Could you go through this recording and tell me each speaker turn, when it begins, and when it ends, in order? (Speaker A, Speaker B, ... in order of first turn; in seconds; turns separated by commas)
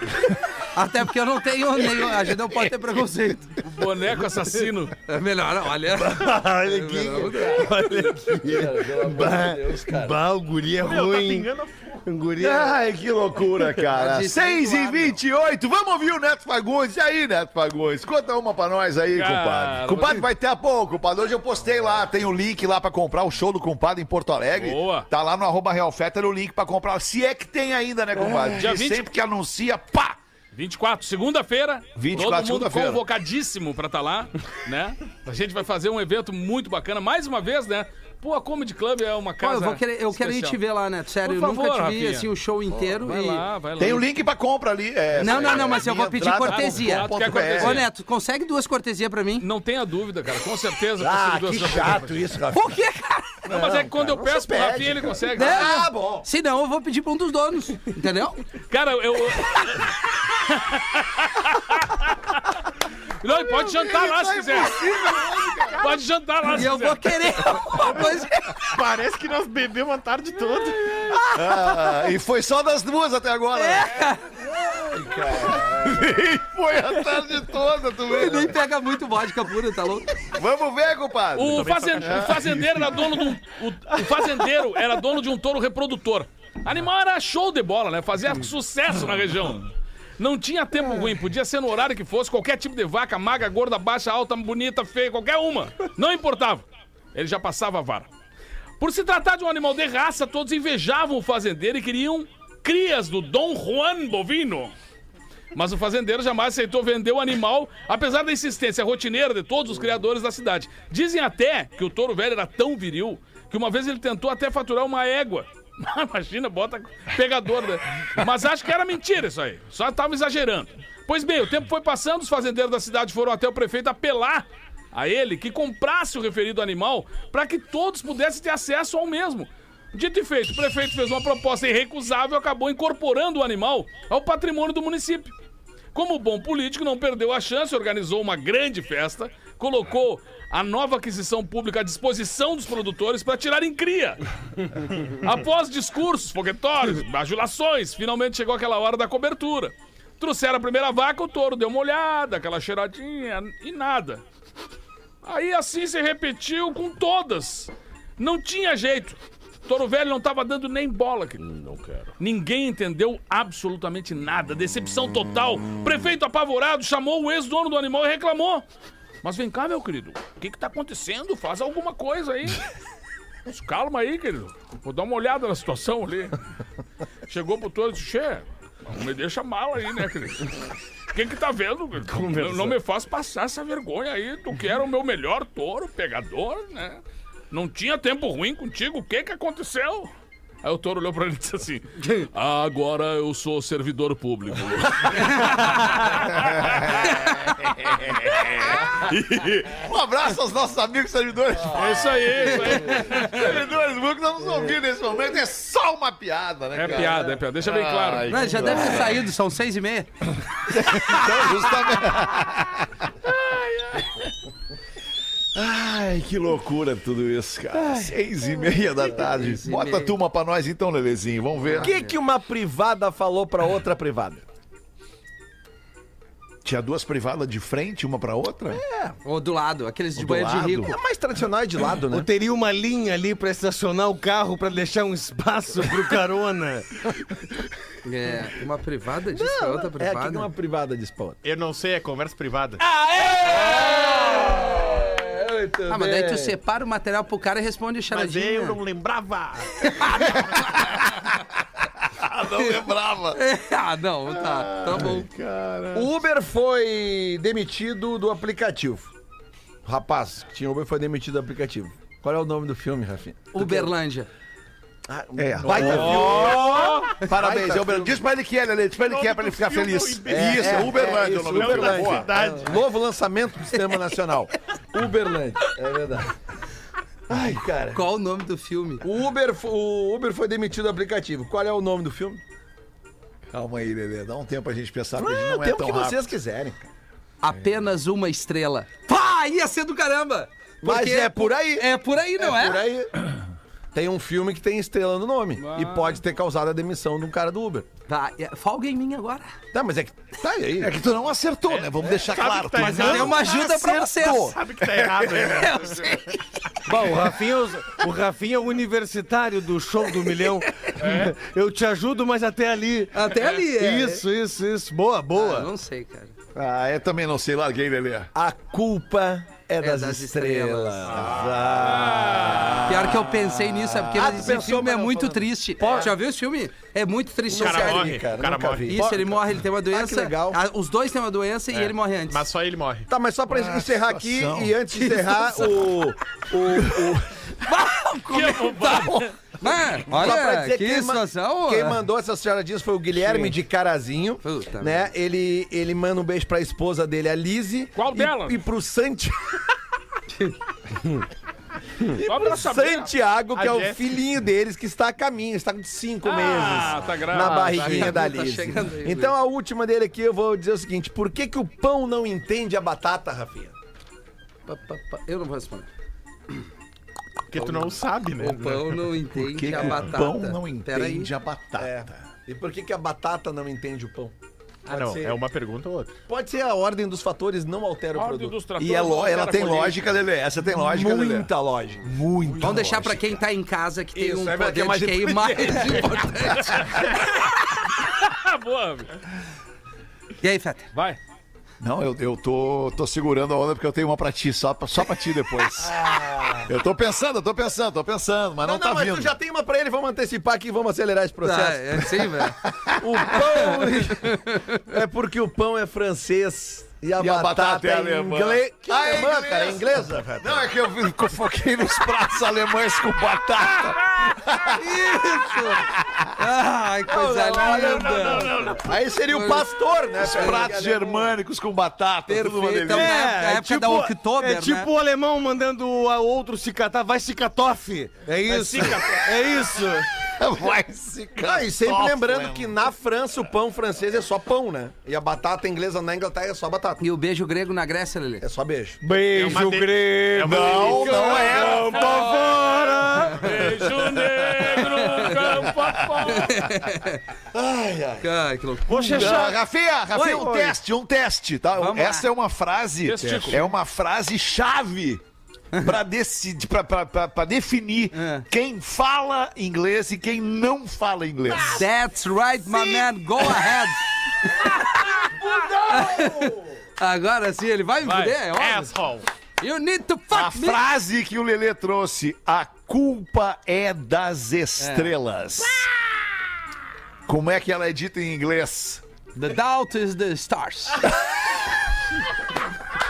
Speaker A: 0.7-3.6, Speaker B: 3.6-4.9, Speaker A: 5.0-7.8, Speaker C: 5.9-11.5, Speaker D: 7.2-7.5, Speaker D: 8.3-10.2, Speaker E: 10.8-12.0, Speaker C: 12.1-12.8, Speaker F: 12.4-30.2, Speaker A: 13.9-15.2, Speaker B: 19.1-20.2, Speaker B: 24.6-25.1, Speaker D: 28.2-28.7, Speaker B: 28.6-29.1, Speaker B: 30.5-40.6, Speaker F: 31.9-33.0, Speaker A: 39.4-43.5, Speaker B: 41.2-44.1, Speaker F: 43.8-47.9, Speaker D: 45.2-45.9, Speaker A: 45.2-49.5, Speaker B: 46.4-47.9, Speaker B: 49.4-52.2, Speaker D: 51.0-52.8, Speaker A: 52.5-53.4, Speaker B: 53.5-55.9, Speaker D: 53.5-56.3, Speaker A: 55.4-58.4, Speaker B: 58.7-62.6, Speaker B: 63.2-64.9, Speaker F: 63.5-65.8, Speaker D: 64.8-65.8, Speaker B: 65.8-67.4, Speaker A: 66.5-68.5, Speaker E: 67.8-71.1, Speaker F: 71.3-74.1, Speaker A: 73.5-74.3, Speaker D: 74.7-76.0, Speaker F: 75.1-78.6, Speaker A: 78.1-80.1, Speaker F: 80.3-83.1, Speaker B: 81.3-98.1, Speaker E: 81.5-82.4, Speaker B: 98.8-104.7, Speaker B: 105.5-135.3, Speaker B: 135.9-144.2, Speaker B: 144.7-154.2, Speaker B: 155.2-161.4, Speaker C: 161.4-162.1, Speaker B: 162.2-168.7, Speaker B: 169.2-172.6, Speaker B: 173.5-176.3, Speaker B: 177.3-180.6, Speaker B: 181.1-190.1, Speaker C: 182.1-182.8, Speaker B: 190.6-198.2, Speaker F: 196.3-209.3, Speaker B: 201.7-203.6, Speaker A: 202.6-203.1, Speaker B: 206.7-208.6, Speaker A: 208.3-210.1, Speaker F: 210.7-214.1, Speaker A: 210.9-211.2, Speaker F: 215.6-221.9, Speaker D: 217.7-218.1, Speaker A: 219.3-220.2, Speaker A: 221.6-222.2, Speaker D: 221.8-224.4, Speaker F: 226.6-228.8, Speaker D: 228.7-229.2, Speaker A: 229.2-230.9, Speaker F: 230.2-231.0, Speaker D: 230.8-232.3, Speaker C: 232.1-237.0, Speaker A: 238.1-240.5, Speaker D: 239.3-241.4, Speaker E: 241.4-242.8, Speaker D: 243.2-246.6, Speaker A: 243.2-243.9, Speaker A: 245.9-248.8, Speaker E: 248.1-250.7, Speaker A: 249.9-250.4, Speaker F: 250.6-251.3, Speaker F: 252.1-253.4, Speaker A: 253.3-255.3, Speaker F: 254.3-256.1, Speaker D: 255.9-259.1, Speaker D: 259.9-263.9, Speaker A: 263.5-264.3, Speaker D: 265.1-268.2, Speaker F: 265.4-272.4, Speaker E: 265.8-266.6, Speaker B: 265.9-267.1, Speaker E: 269.0-272.8, Speaker D: 270.3-276.3, Speaker D: 277.3-278.0, Speaker A: 277.9-279.0, Speaker D: 279.0-282.4, Speaker F: 283.5-286.3, Speaker D: 285.2-286.9, Speaker A: 287.4-292.9, Speaker D: 290.8-293.3, Speaker D: 293.9-297.9, Speaker B: 295.6-296.2, Speaker A: 298.1-299.5, Speaker D: 299.7-300.9, Speaker F: 300.8-303.4, Speaker E: 301.7-303.6, Speaker A: 302.8-304.6, Speaker D: 303.4-304.6, Speaker E: 304.2-306.1, Speaker A: 305.4-306.4, Speaker F: 305.4-306.2, Speaker C: 306.9-315.7, Speaker B: 311.0-311.4, Speaker A: 313.1-314.2, Speaker A: 315.4-316.3, Speaker F: 316.6-318.3, Speaker D: 318.3-323.1, Speaker A: 319.8-321.2, Speaker B: 321.2-322.9, Speaker A: 322.8-328.1, Speaker D: 324.1-326.1, Speaker E: 325.8-326.1, Speaker D: 327.5-329.4, Speaker E: 327.6-329.2, Speaker A: 328.9-332.4, Speaker D: 329.9-330.6, Speaker E: 331.7-333.1, Speaker D: 333.1-337.3, Speaker F: 333.5-334.8, Speaker A: 337.6-342.0, Speaker B: 338.3-339.4, Speaker D: 340.0-349.6, Speaker A: 344.4-345.1, Speaker B: 347.9-348.6, Speaker D: 352.0-363.8, Speaker B: 352.2-353.1, Speaker E: 353.6-354.2, Speaker B: 356.2-358.2, Speaker A: 357.3-359.4, Speaker A: 364.7-365.9, Speaker E: 367.5-369.0, Speaker A: 368.4-371.3, Speaker F: 369.3-372.2, Speaker D: 371.8-374.3, Speaker E: 374.9-376.1, Speaker D: 374.9-375.4, Speaker D: 376.3-378.6, Speaker B: 378.2-380.0, Speaker F: 378.8-381.5, Speaker D: 380.7-383.2, Speaker F: 382.0-383.2, Speaker A: 382.6-387.0, Speaker D: 384.1-386.9, Speaker B: 386.6-389.1, Speaker A: 390.4-390.9, Speaker B: 390.9-391.2, Speaker F: 391.8-396.1, Speaker D: 395.8-396.7, Speaker F: 396.6-399.4, Speaker D: 398.6-410.7, Speaker A: 401.4-402.6, Speaker A: 403.6-404.8, Speaker F: 407.2-414.9, Speaker A: 414.8-418.8, Speaker F: 415.8-416.3, Speaker D: 417.1-421.3, Speaker B: 418.2-418.7, Speaker A: 419.3-419.7, Speaker F: 420.2-423.2, Speaker A: 420.3-420.6, Speaker A: 422.3-424.9, Speaker C: 422.9-430.1, Speaker E: 428.5-429.5, Speaker F: 430.3-432.8, Speaker D: 431.4-437.0, Speaker A: 437.0-438.4, Speaker D: 438.4-439.0, Speaker C: 439.0-443.5, Speaker E: 439.3-441.7, Speaker F: 440.4-442.0, Speaker B: 441.9-442.6, Speaker B: 443.4-446.7, Speaker A: 444.9-445.4, Speaker F: 445.8-446.1, Speaker A: 446.3-447.2, Speaker D: 447.5-448.3, Speaker A: 448.2-449.4, Speaker C: 448.9-449.6, Speaker F: 449.1-455.2, Speaker A: 450.1-450.5, Speaker C: 450.2-450.8, Speaker A: 451.8-452.3, Speaker B: 453.1-453.6, Speaker D: 453.3-453.6, Speaker F: 455.8-461.9, Speaker A: 458.1-458.4, Speaker A: 461.6-465.0, Speaker F: 462.6-463.8, Speaker D: 465.2-466.7, Speaker A: 465.9-468.9, Speaker B: 468.0-468.4, Speaker E: 468.5-469.3, Speaker A: 469.6-470.8, Speaker F: 470.3-475.9, Speaker A: 474.8-475.1, Speaker F: 477.3-479.0, Speaker A: 479.4-481.1